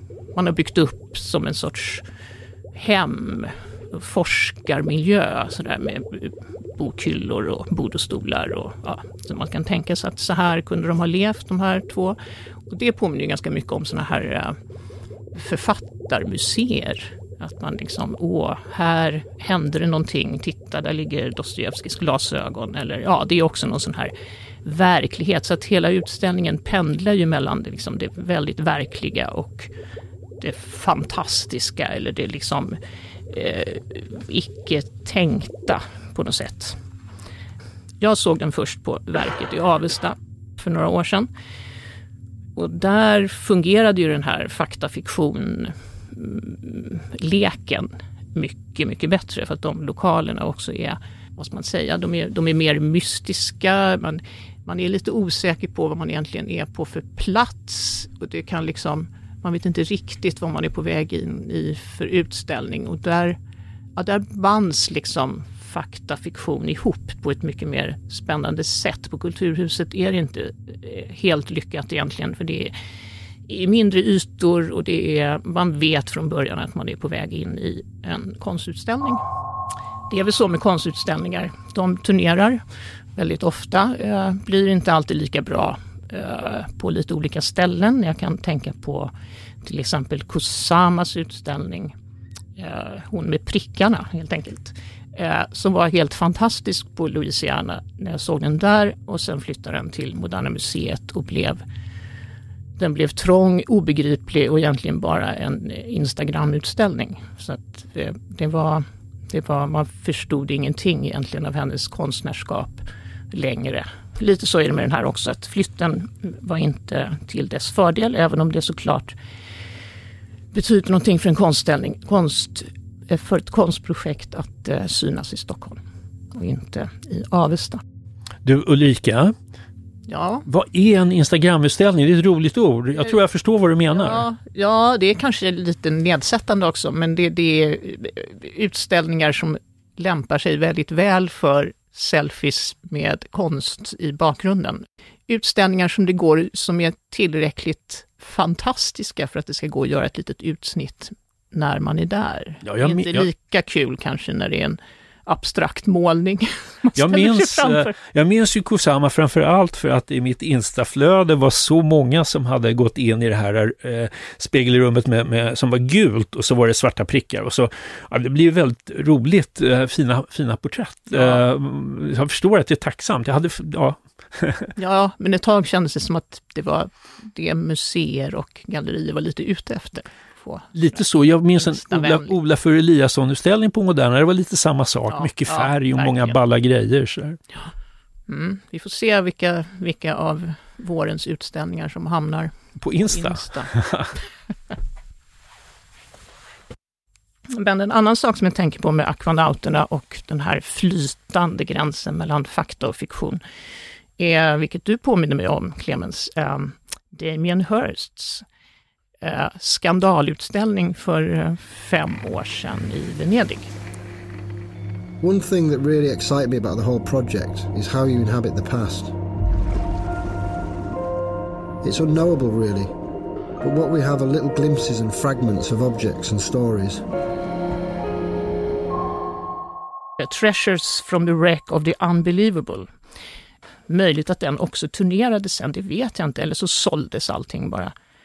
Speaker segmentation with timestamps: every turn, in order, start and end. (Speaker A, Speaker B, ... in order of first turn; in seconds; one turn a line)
Speaker A: 0.3-2.0
Speaker A: 2.7-12.2
Speaker A: 12.7-14.6
Speaker A: 15.3-24.1
Speaker A: 24.6-29.7
Speaker A: 30.4-32.8
Speaker A: 33.3-36.8
Speaker A: 38.0-41.3
Speaker A: 42.5-63.4
Speaker A: 64.0-72.7
Speaker A: 73.5-79.2
Speaker A: 80.1-82.6
Speaker A: 83.2-89.1
Speaker A: 89.6-92.0
Speaker A: 92.5-101.6
Speaker A: 102.8-119.1
Speaker A: 120.5-125.8
Speaker A: 126.3-127.8
Speaker B: 128.4-129.3
Speaker A: 130.1-130.4
Speaker B: 130.4-134.2
Speaker A: 133.9-157.9
Speaker B: 152.6-153.3
Speaker B: 156.9-174.7
Speaker A: 171.1-171.4
Speaker A: 174.8-181.0
Speaker B: 180.7-187.4
Speaker A: 181.5-182.3
Speaker A: 185.1-186.4
Speaker A: 188.3-192.5
Speaker B: 192.8-194.1
Speaker A: 193.1-193.7
Speaker A: 197.5-203.4
Speaker A: 204.2-208.4
Speaker A: 209.2-213.7
Speaker C: 215.2-219.1
Speaker C: 221.8-222.9
Speaker C: 223.6-227.1
Speaker A: 230.2-232.9
Speaker A: 233.9-237.9